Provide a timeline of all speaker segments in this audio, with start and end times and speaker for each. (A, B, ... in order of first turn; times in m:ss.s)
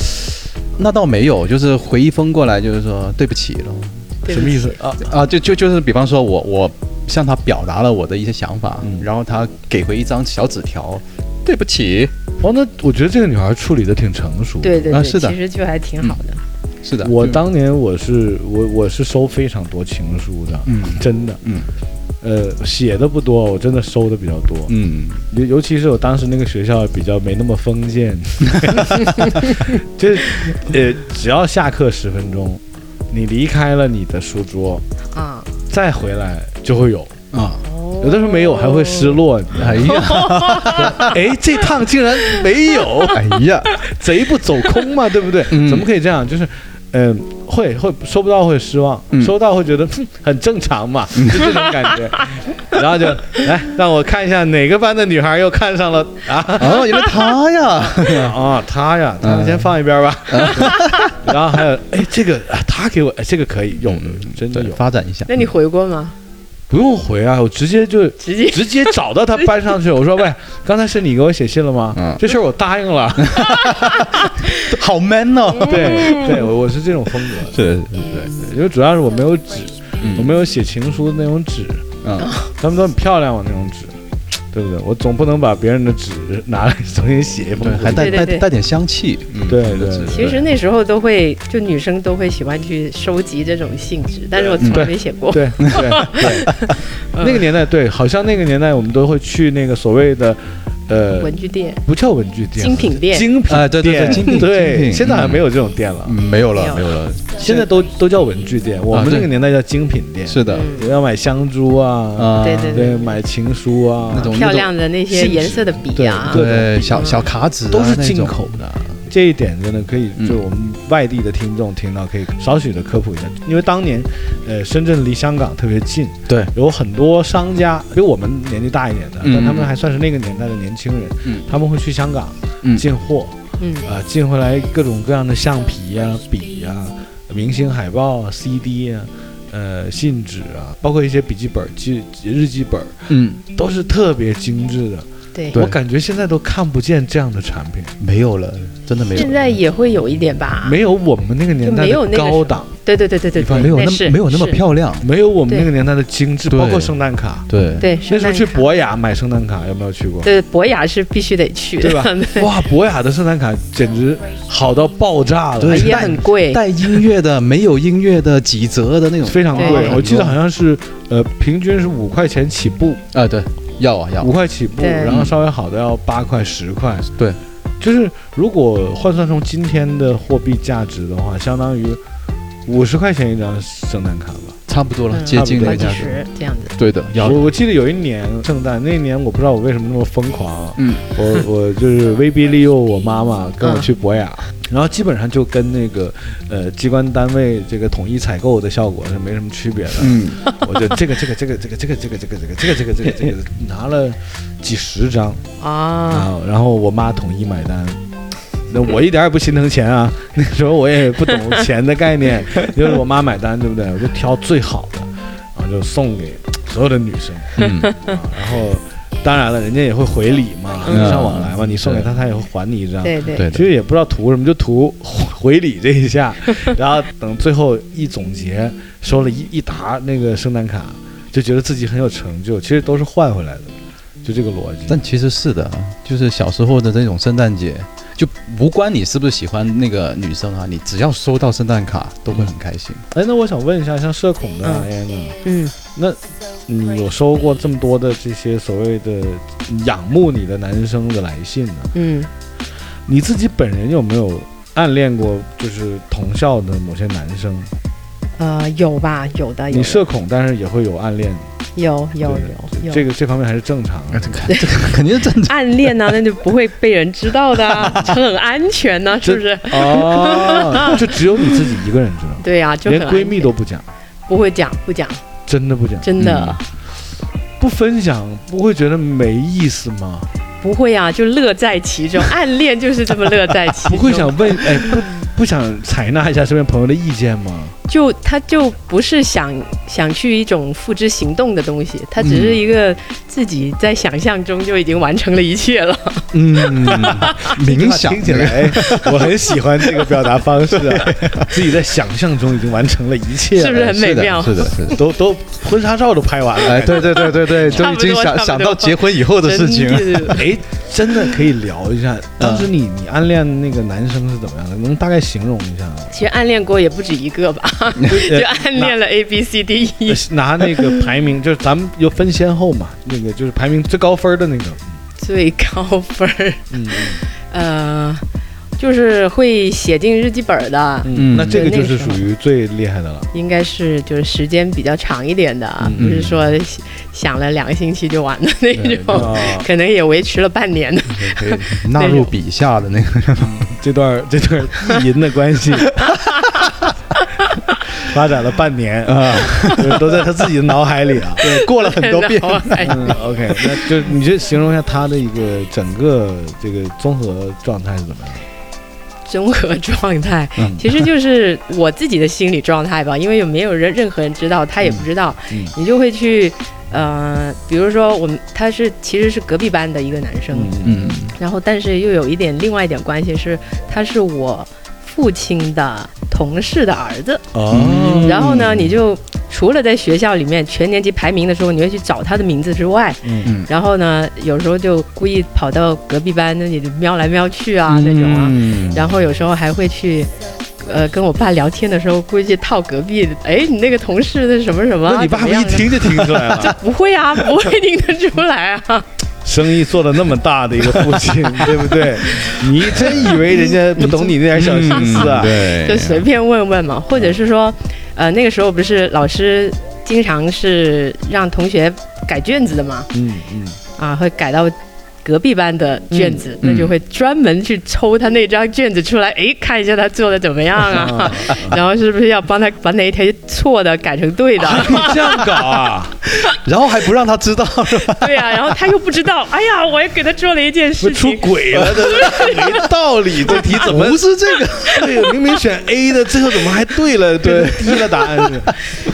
0:00.8-0:04.1 A
0:04.2-0:04.8 B
0:04.3-0:05.1 C
0:05.0-0:12.1 A
0:08.8-0:09.1 C
0:12.4-0:14.9 C
0:14.6-0:16.4 B
0:14.9-0:15.4 A
0:16.8-0:17.4 A
0:17.0-0:21.4 C
0:20.6-0:21.7 A
0:22.2-0:24.7 C
0:24.7-0:25.2 A
0:25.3-0:34.8 C
0:35.1-0:35.5 B
0:35.7-0:37.1 C
0:37.3-0:37.6 A
0:37.6-0:39.2 B
0:38.0-0:40.2 C
0:39.5-0:41.2 A
0:39.8-0:41.1 B
0:40.7-0:57.1 C
0:43.1-0:43.8 A
0:45.5-0:45.9 A
0:51.2-0:51.5 A
0:56.6-0:58.4 A
0:58.0-1:04.8 C
0:59.2-0:59.7 A
1:00.3-1:01.2 A
1:00.6-1:01.0 B
1:03.8-1:05.4 A
1:05.3-1:06.1 B
1:06.7-1:13.7 C
1:08.2-1:09.5 B
1:11.9-1:12.2 A
1:13.2-1:16.4 A
1:13.5-1:14.7 B
1:15.6-1:16.3 B
1:15.6-1:17.6 C
1:17.4-1:18.4 A
1:18.2-1:21.9 C
1:20.0-1:20.4 A
1:22.0-1:22.3 A
1:22.2-1:22.5 B
1:22.6-1:24.0 C
1:24.5-1:28.3 C
1:27.6-1:30.4 A
1:27.9-1:28.4 B
1:29.4-1:30.4 C
1:30.1-1:37.4 B
1:34.4-1:46.2 C
1:34.6-1:34.9 A
1:35.6-1:36.4 A
1:41.2-1:41.8 B
1:42.6-1:43.3 B
1:43.4-1:45.5 A
1:46.0-1:47.6 A
1:46.5-1:46.9 B
1:47.4-1:54.4 C
1:48.9-1:49.3 A
1:50.3-1:50.7 A
1:50.5-1:50.9 B
1:52.2-1:52.9 A
1:52.4-1:53.1 B
1:54.1-1:54.7 A
1:54.3-1:56.4 B
1:55.1-2:28.0 C
1:56.3-1:58.4 A
1:56.9-1:57.2 B
2:09.2-2:09.7 A
2:13.6-2:13.9 B
2:23.1-2:23.4 A
2:28.0-2:29.6 A
2:29.1-2:30.8 B
2:30.6-2:32.7 C
2:31.6-2:34.6 B
2:33.4-2:33.8 C
2:33.5-2:35.0 A
2:35.0-2:40.3 C
2:36.5-2:36.9 A
2:37.5-2:37.9 A
2:37.8-2:38.6 B
2:40.2-2:42.5 B
2:41.8-2:46.2 C
2:45.6-2:50.4 A
2:45.7-2:46.6 B
2:49.2-2:53.0 C
2:49.6-2:50.0 B
2:53.1-2:54.3 A
2:54.2-2:57.1 C
2:54.8-2:55.2 B
2:55.0-2:55.4 A
2:57.8-3:02.0 C
3:02.6-3:04.6 C
3:04.7-3:06.2 A
3:05.1-3:06.7 B
3:05.3-3:06.1 C
3:06.8-3:07.5 A
3:07.1-3:25.4 C
3:10.8-3:11.0 A
3:13.6-3:13.9 B
3:20.0-3:20.4 A
3:25.6-3:26.3 B
3:26.1-3:28.0 C
3:28.7-3:55.0 C
3:37.6-3:37.9 A
3:37.6-3:38.1 B
3:40.9-3:41.2 B
3:40.9-3:42.1 A
3:43.0-3:43.4 B
3:43.3-3:43.7 A
3:54.9-4:03.0 A
4:03.1-4:05.4 C
4:04.6-4:04.9 B
4:05.4-4:05.7 B
4:06.0-4:11.9 C
4:11.9-4:12.3 B
4:13.0-4:17.7 C
4:18.4-4:20.0 B
4:19.7-4:21.5 C
4:21.8-4:23.0 B
4:22.2-4:24.5 C
4:24.1-4:26.2 A
4:24.5-4:24.8 B
4:25.4-4:31.5 B
4:27.8-4:28.1 A
4:29.2-4:33.9 C
4:32.4-4:33.5 B
4:34.3-4:35.2 B
4:35.5-4:36.1 C
4:36.0-4:36.6 B
4:36.2-4:36.6 A
4:37.6-4:40.3 C
4:40.6-4:45.0 B
4:43.8-4:47.7 C
4:47.9-4:57.5 B
4:52.2-4:52.6 A
4:56.3-4:59.3 A
4:56.9-5:04.0 C
5:00.7-5:01.6 A
5:03.5-5:05.0 B
5:03.8-5:05.0 A
5:04.9-5:07.6 C
5:06.6-5:10.5 A
5:07.1-5:10.5 B
5:10.3-5:16.2 C
5:12.4-5:12.7 A
5:16.1-5:21.0 B
5:18.1-5:18.9 C
5:20.1-5:25.0 C
5:25.2-5:28.2 B
5:26.7-5:27.2 C
5:28.8-5:32.2 B
5:31.0-5:33.3 C
5:31.1-5:31.6 A
5:33.3-5:42.3 B
5:35.8-5:36.3 C
5:36.0-5:36.4 A
5:38.7-5:39.4 A
5:39.1-5:39.7 C
5:41.1-5:43.6 A
5:43.4-5:46.0 C
5:46.0-5:46.7 A
5:46.2-5:46.7 B
5:47.4-5:47.7 B
5:48.0-5:51.5 C
5:49.0-5:50.3 A
5:51.4-5:53.1 A
5:51.4-5:53.8 B
5:52.8-5:58.4 C
5:59.3-6:10.8 B
6:04.8-6:05.7 C
6:10.5-6:11.2 C
6:10.8-6:11.3 A
6:11.4-6:17.4 B
6:17.5-6:18.9 C
6:17.7-6:18.7 A
6:18.1-6:39.1 B
6:23.2-6:23.5 C
6:27.9-6:29.1 A
6:35.0-6:36.8 C
6:39.4-6:45.6 C
6:42.2-6:44.3 B
6:44.5-6:46.2 A
6:44.8-6:53.1 B
6:53.1-6:53.8 C
6:54.0-7:05.5 B
6:56.6-6:56.9 A
7:00.9-7:01.8 C
7:04.6-7:06.2 C
7:05.0-7:05.5 A
7:06.4-7:08.8 A
7:07.9-7:12.8 B
7:11.0-7:14.3 C
7:13.4-7:15.3 A
7:14.8-7:18.8 C
7:17.6-7:18.5 A